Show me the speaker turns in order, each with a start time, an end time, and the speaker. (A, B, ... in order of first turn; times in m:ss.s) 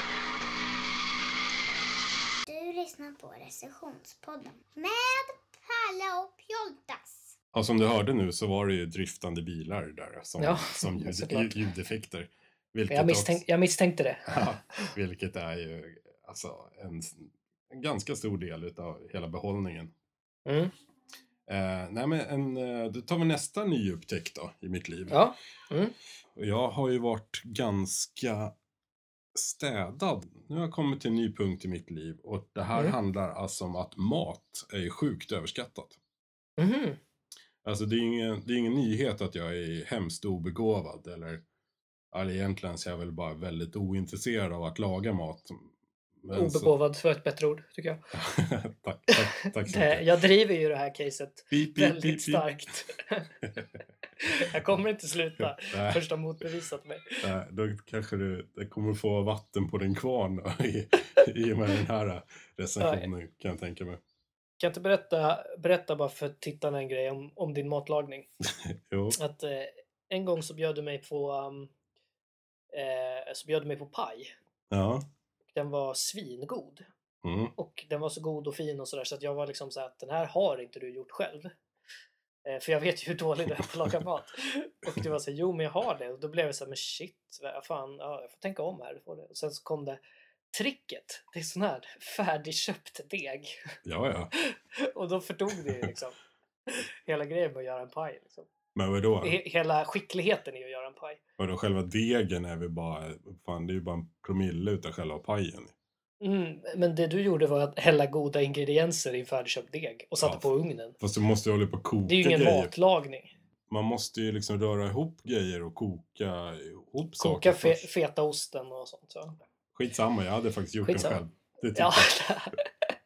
0:02.5-0:07.3 A
0:07.5-0:13.4 B
0:10.4-0:11.6 C
0:12.9-0:14.9 C
0:14.3-0:19.9 B
0:20.4-0:20.7 C
0:21.5-0:25.2 B
0:25.1-0:25.9 C
0:26.4-0:28.5 B
0:29.3-0:36.0 B
0:36.6-0:37.0 C
0:37.6-0:41.4 B
0:42.1-0:45.7 B
0:46.2-0:46.7 B
0:46.3-0:48.0 C
0:48.1-0:50.0 B
0:49.1-0:53.3 C
0:51.5-0:52.5 B
0:54.2-0:57.2 C
0:55.6-0:56.0 B
0:57.2-1:04.0 B
1:02.8-1:03.1 C
1:04.6-1:08.3 C
1:08.6-1:09.2 B
1:09.1-1:11.7 C
1:12.7-1:14.3 C
1:14.7-1:15.0 B
1:15.5-1:16.8 C
1:17.2-1:17.5 B
1:17.6-1:21.5 C
1:22.4-1:30.0 C
1:30.5-1:33.7 C
1:33.8-1:34.3 B
1:34.4-1:36.2 C
1:36.7-1:38.5 C
1:38.7-1:39.4 B
1:39.2-1:41.2 C
1:41.4-1:45.7 B
1:46.2-1:51.0 C
1:50.2-1:50.5 B
1:51.0-1:52.7 B
1:52.1-1:53.3 C
1:53.7-1:57.9 B
1:57.2-1:59.4 C
1:59.7-2:02.2 B
2:00.8-2:01.2 C
2:01.7-2:02.9 C